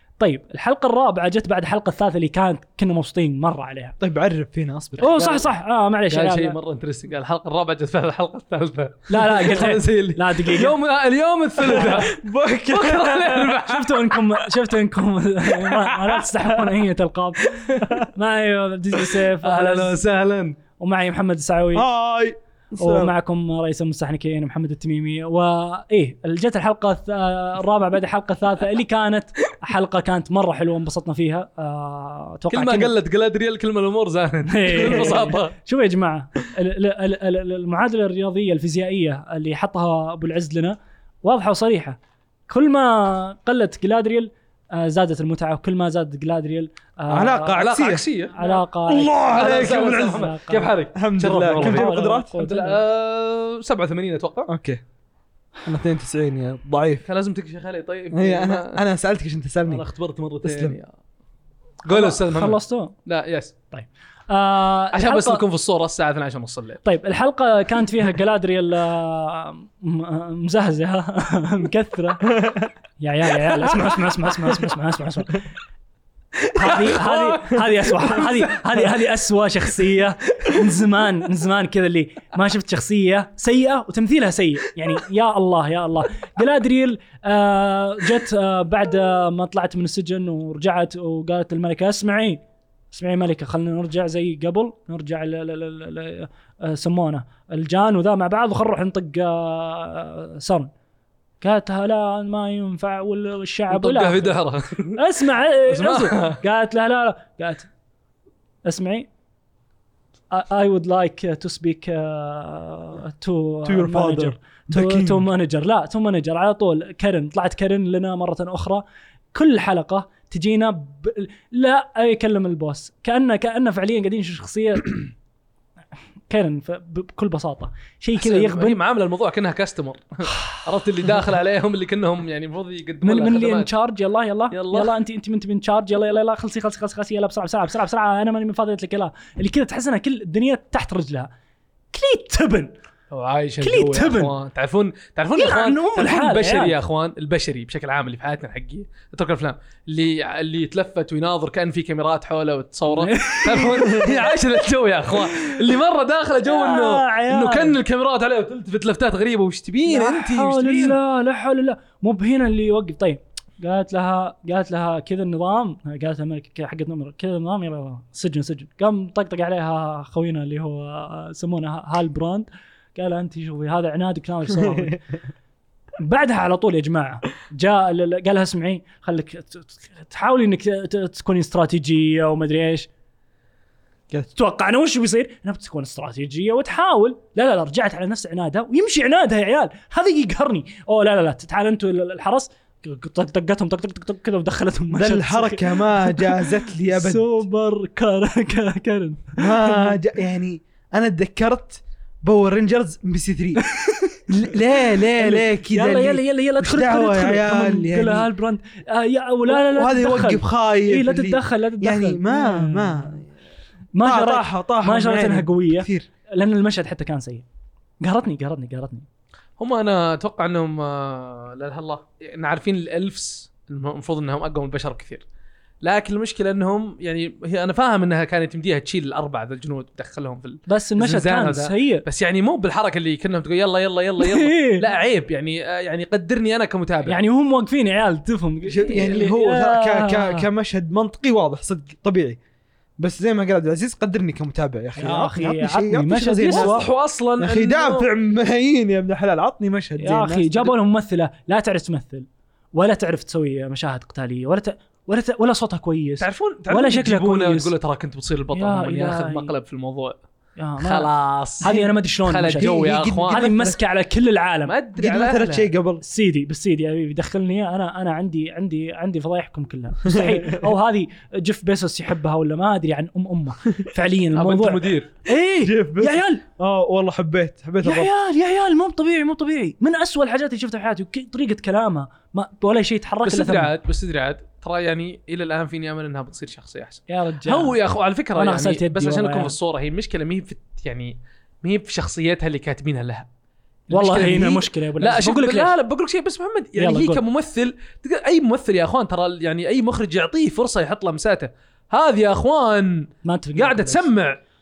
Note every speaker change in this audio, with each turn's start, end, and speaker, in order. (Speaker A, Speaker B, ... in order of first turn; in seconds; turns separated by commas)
Speaker A: 0.2-4.0, Speaker B: 4.0-5.1, Speaker A: 5.0-6.5, Speaker C: 5.0-5.5, Speaker C: 6.1-12.1, Speaker A: 9.1-10.8, Speaker B: 11.6-13.6, Speaker C: 12.7-14.2, Speaker A: 13.6-20.0, Speaker C: 15.7-16.2, Speaker C: 19.1-20.6, Speaker A: 20.8-21.9, Speaker B: 21.7-23.1, Speaker A: 22.8-32.9, Speaker C: 32.5-35.5, Speaker A: 34.5-42.0, Speaker A: 42.5-47.6, Speaker B: 47.1-48.0, Speaker C: 47.5-48.5, Speaker A: 48.3-50.8, Speaker B: 48.9-50.3, Speaker C: 49.3-54.5, Speaker B: 50.9-52.3, Speaker A: 51.5-52.8, Speaker B: 54.5-54.8, Speaker B: 55.6-57.0, Speaker C: 57.0-58.8, Speaker B: 58.1-59.8, Speaker C: 59.7-60.9, Speaker B: 60.4-60.8, Speaker C: 61.9-63.5, Speaker A: 61.9-62.9, Speaker A: 63.7-65.4, Speaker C: 64.9-66.8, Speaker A: 66.8-72.4, Speaker B: 72.4-72.7, Speaker A: 73.0-75.5, Speaker C: 73.6-74.3, Speaker A: 76.5-100.7, Speaker C: 76.6-78.9, Speaker A: 101.4-104.3, Speaker C: 103.7-105.0, Speaker A: 105.0-107.7, Speaker C: 105.7-106.4, Speaker A: 108.6-109.1, Speaker A: 110.3-118.8, Speaker B: 113.7-115.3, Speaker A: 119.3-125.1, Speaker A: 126.3-128.8, Speaker C: 128.2-133.7, Speaker A: 133.0-141.3, Speaker C: 134.5-134.9, Speaker A: 141.9-142.7, Speaker C: 143.1-161.0, Speaker A: 143.6-144.3, Speaker A: 145.3-146.7, Speaker A: 152.9-154.4, Speaker A: 155.2-155.6, Speaker A: 156.4-157.8, Speaker A: 159.8-175.0, Speaker B: 174.5-174.9, Speaker A: 176.0-182.9, Speaker A: 184.3-199.9, Speaker B: 194.9-197.4, Speaker B: 199.4-203.6, Speaker B: 204.3-208.3, Speaker A: 204.8-213.2, Speaker B: 209.5-213.3, Speaker A: 213.9-217.4, Speaker B: 214.0-216.1, Speaker A: 218.0-219.1, Speaker C: 219.6-225.2, Speaker C: 225.8-237.2, Speaker A: 230.7-232.0, Speaker A: 234.2-234.8, Speaker A: 237.1-240.4, Speaker B: 238.7-242.4, Speaker C: 238.9-239.2, Speaker B: 243.0-246.8, Speaker A: 245.0-246.8, Speaker C: 246.5-248.1, Speaker B: 247.4-250.7, Speaker A: 250.0-257.7, Speaker C: 256.2-260.2, Speaker A: 258.5-259.5, Speaker A: 260.6-264.7, Speaker C: 260.8-261.7, Speaker B: 261.6-261.9, Speaker C: 262.2-263.5, Speaker B: 262.5-263.8, Speaker C: 264.7-265.6, Speaker B: 265.0-266.0, Speaker A: 266.0-276.4, Speaker B: 270.0-270.7, Speaker C: 274.3-275.1, Speaker B: 275.6-278.1, Speaker A: 277.8-283.7, Speaker C: 283.2-293.3, Speaker A: 287.1-287.8, Speaker A: 288.4-289.5, Speaker A: 293.9-295.7, Speaker C: 293.9-304.4, Speaker A: 296.8-297.2, Speaker A: 303.2-304.1